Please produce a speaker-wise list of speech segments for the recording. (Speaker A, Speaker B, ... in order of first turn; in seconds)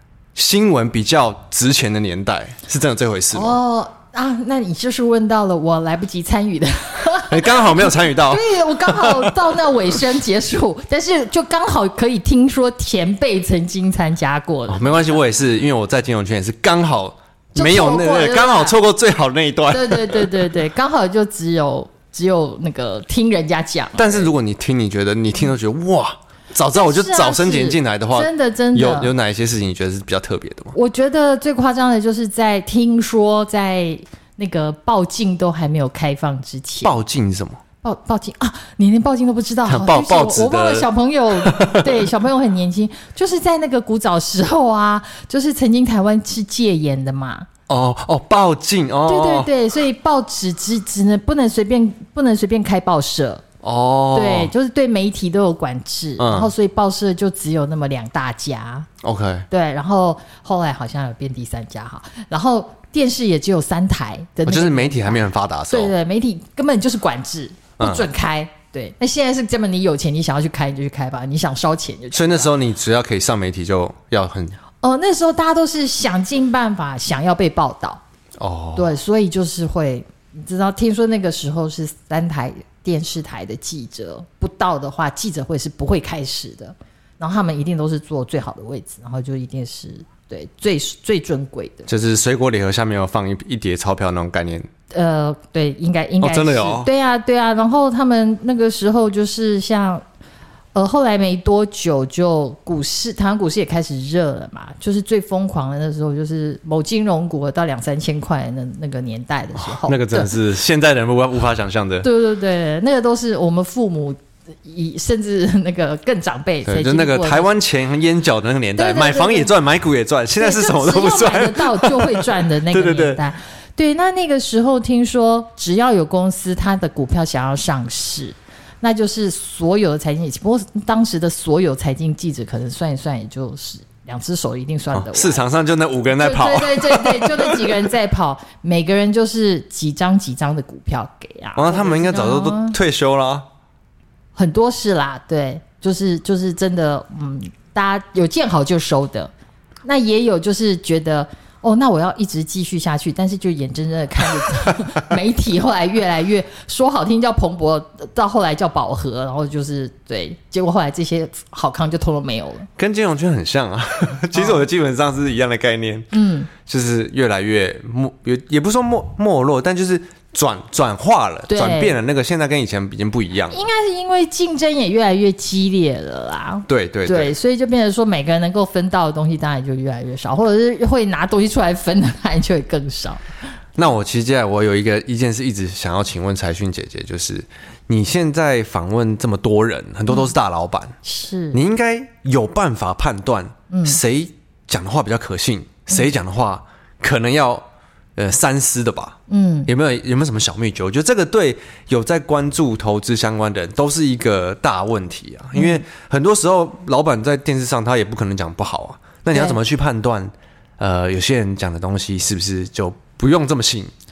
Speaker A: 0.3-3.6, 7.3-9.4, 14.7-20.4, 24.0-30.8, 36.8-37.6, 39.7-42.1, 47.7-49.5, 53.6-54.5, 56.2-56.5, 59.0-59.5, 64.5-65.9, 67.8-68.1, 72.1-74.6, 78.4-78.9, 91.9-94.7, 96.2-96.9, 109.6-112.1, 116.7-123.2, 134.9-137.8, 141.6-143.5, 162.8-173.6, 176.7-177.3, 183.8-191.0, 191.5-213.9
Speaker B: 3.3-15.2, 17.6-18.8, 19.7-24.3, 26.7-29.1, 30.7-37.0, 37.8-47.5, 49.1-53.5, 54.1-58.9, 59.5-72.5, 74.8-78.0, 78.8-91.9, 94.9-100.0, 100.8-110.3, 112.0-117.5, 118.8-119.5, 120.4-135.5, 136.1-142.8, 144.4-149.3, 149.8-162.7, 164.3-164.6, 166.1-166.5, 171.5-172.0, 173.5-183.2, 191.0-191.6, 193.7-194.0, 199.3-199.7, 205.5-205.8, 209.3-209.6